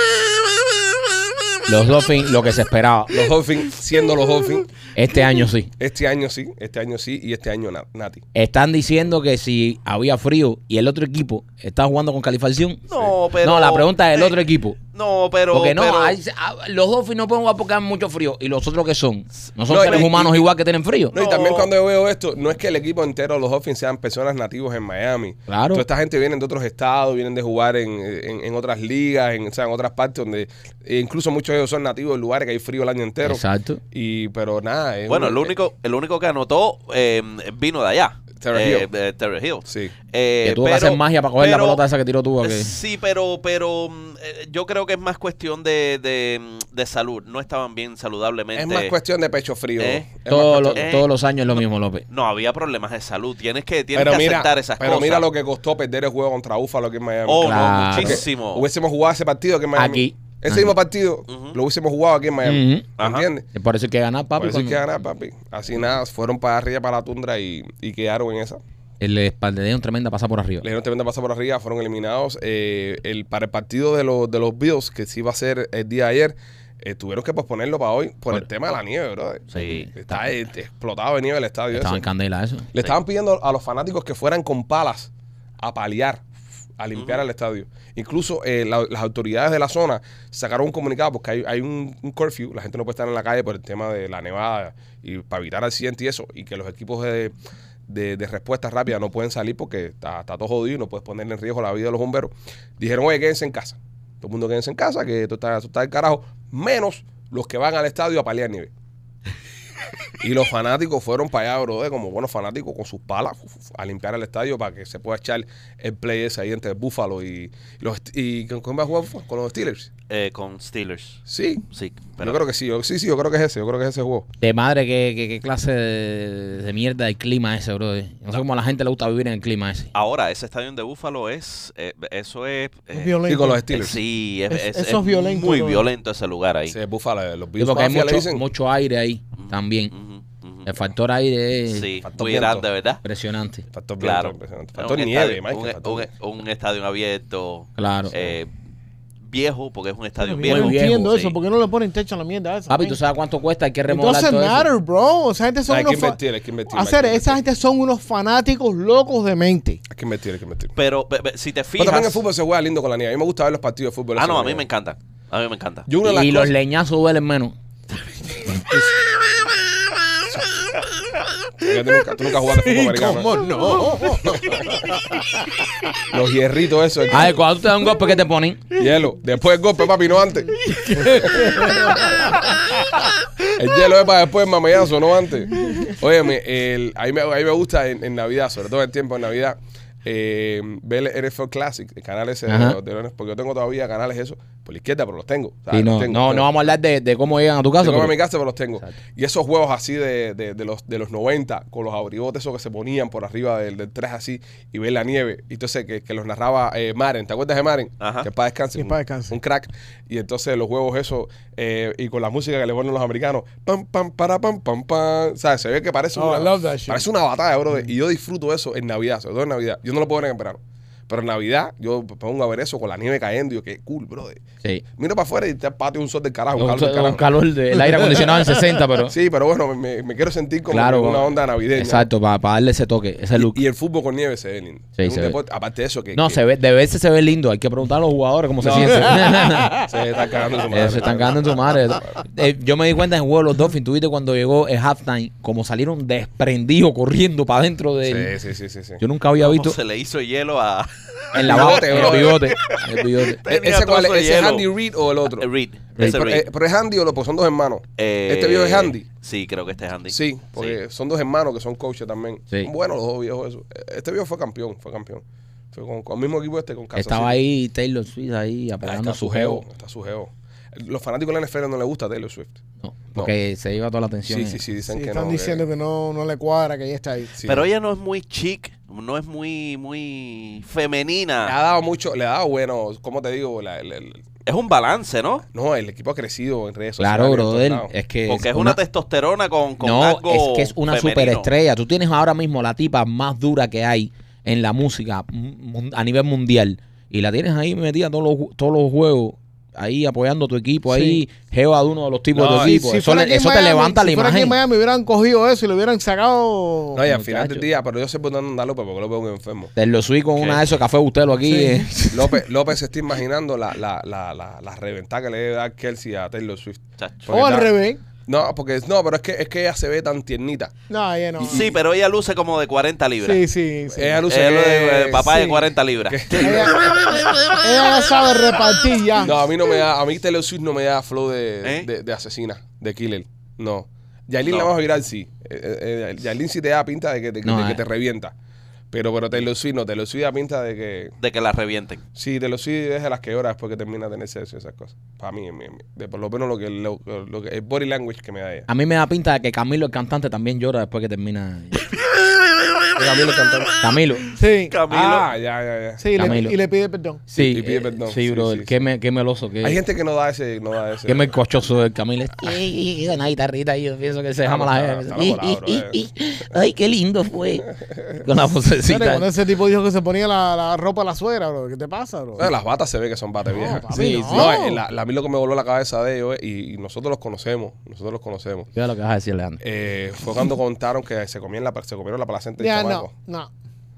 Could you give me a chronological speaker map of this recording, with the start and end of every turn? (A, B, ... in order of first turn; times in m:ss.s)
0:01.7-0:03.3 A
0:03.1-0:04.7 B
0:05.0-0:05.7 A
0:05.8-0:08.2 B
0:08.4-0:14.8 A
0:12.9-0:14.4 C
0:14.9-0:16.2 C
0:15.5-0:21.1 A
0:19.7-0:20.5 B
0:19.7-0:20.1 C
0:21.1-0:21.7 C
0:21.1-0:35.5 B
0:25.5-0:25.8 A
0:33.2-0:33.8 A
0:35.1-0:41.8 C
0:38.4-0:38.9 B
0:39.7-0:39.9 B
0:40.4-0:42.7 A
0:42.4-0:48.9 C
0:48.6-0:50.9 B
0:49.8-0:50.1 C
0:50.3-0:52.0 A
0:50.8-0:51.1 C
0:52.1-0:55.3 C
0:53.9-1:03.5 B
0:57.3-0:58.6 C
0:57.4-0:58.2 A
0:59.8-1:00.8 A
1:01.3-1:01.6 C
1:02.4-1:02.9 A
1:03.0-1:03.3 C
1:03.5-1:04.8 A
1:04.4-1:08.6 B
1:09.0-1:10.7 A
1:10.6-1:22.0 B
1:19.5-1:19.9 C
1:21.7-1:22.7 A
1:22.7-1:25.1 B
1:25.6-1:26.3 B
1:26.8-1:37.4 B
1:26.9-1:27.2 C
1:37.9-1:48.7 B
1:50.2-1:59.9 B
2:00.1-2:02.4 C
2:01.3-2:01.6 B
2:02.2-2:04.3 B
2:04.4-2:09.9 A
2:09.9-2:16.8 C
2:12.9-2:13.6 D
2:13.3-2:14.0 B
2:14.5-2:15.9 D
2:16.7-2:18.4 B
2:17.6-2:19.9 A
2:19.4-2:20.7 C
2:20.7-2:21.9 A
2:21.7-2:23.0 C
2:22.0-2:22.7 B
2:23.0-2:23.6 A
2:23.7-2:26.1 B
2:24.0-2:28.5 C
2:27.8-2:28.1 A
2:29.3-2:31.4 C
2:30.2-2:33.0 D
2:30.4-2:31.1 A
2:32.7-2:34.7 A
2:33.9-2:39.8 D
2:35.7-2:37.4 B
2:39.9-2:40.8 B
2:40.8-2:42.2 C
2:41.8-2:44.6 B
2:44.2-2:45.9 C
2:45.9-2:46.5 B
2:46.0-2:47.6 A
2:51.6-2:53.4 B
2:52.5-2:55.3 D
2:53.5-2:54.2 C
2:56.1-2:57.4 B
2:57.1-2:58.6 A
2:58.8-3:02.0 B
3:00.7-3:02.7 D
3:03.6-3:16.6 B
3:12.5-3:12.8 A
3:15.7-3:18.1 A
3:17.8-3:44.4 B
3:28.0-3:28.3 C
3:28.8-3:29.4 D
3:36.2-3:37.0 D
3:45.0-3:47.2 B
3:46.6-3:49.1 A
3:48.0-3:48.7 D
3:49.0-3:52.1 B
3:50.7-3:53.6 A
3:53.4-3:56.4 B
3:55.0-3:55.4 A
3:56.1-3:59.8 A
3:58.6-4:02.2 B
4:00.7-4:08.3 A
4:08.0-4:09.0 B
4:09.0-4:09.8 A
4:09.4-4:14.7 C
4:11.3-4:12.5 B
4:11.4-4:13.4 A
4:13.5-4:15.5 B
4:15.4-4:16.5 C
4:16.0-4:19.1 B
4:18.0-4:20.8 C
4:20.1-4:27.4 B
4:27.0-4:29.6 A
4:28.8-4:32.6 B
4:32.8-4:34.6 A
4:34.3-4:35.6 B
4:34.9-4:37.3 D
4:37.4-4:37.7 B
4:37.4-4:41.5 C
4:41.5-4:44.2 B
4:44.5-4:45.4 C
4:45.5-4:47.9 B
4:47.0-4:48.8 A
4:48.3-4:51.5 C
4:49.8-5:04.6 A
5:00.9-5:01.2 D
5:02.3-5:02.8 B
5:02.5-5:07.0 D
5:06.9-5:09.7 B
5:07.1-5:07.7 A
5:09.8-5:12.4 A
5:10.4-5:10.8 C
5:11.5-5:11.9 D
5:12.1-5:17.7 B
5:17.0-5:17.3 C
5:17.3-5:18.0 D
5:18.3-5:20.7 B
5:20.9-5:21.7 D
5:21.4-5:21.7 B
5:21.5-5:23.4 C
5:23.2-5:24.2 D
5:23.9-5:25.5 B
5:24.3-5:27.3 C
5:26.1-5:26.9 B
5:26.3-5:26.8 D
5:27.6-5:29.4 D
5:29.2-5:38.3 B
5:34.4-5:34.7 C
5:37.4-5:37.8 A
5:38.9-5:41.2 B
5:41.2-5:42.0 C
5:42.2-5:48.7 B
5:48.7-5:51.8 A
5:52.7-5:53.3 C
5:53.0-5:53.7 B
5:53.8-5:54.2 A
5:54.3-5:54.8 D
5:54.7-5:55.3 C
5:54.9-5:56.4 B
5:56.0-5:57.2 D
5:56.2-5:56.6 A
5:57.3-5:59.8 A
5:57.4-5:58.8 B
5:59.6-6:01.3 B
6:01.1-6:09.3 A
6:04.4-6:06.0 B
6:07.8-6:08.2 B
6:08.9-6:12.5 D
6:12.4-6:18.7 B
6:13.5-6:14.8 D
6:13.9-6:14.6 A
6:18.7-6:19.6 A
6:19.6-6:23.1 B
6:22.6-6:23.5 D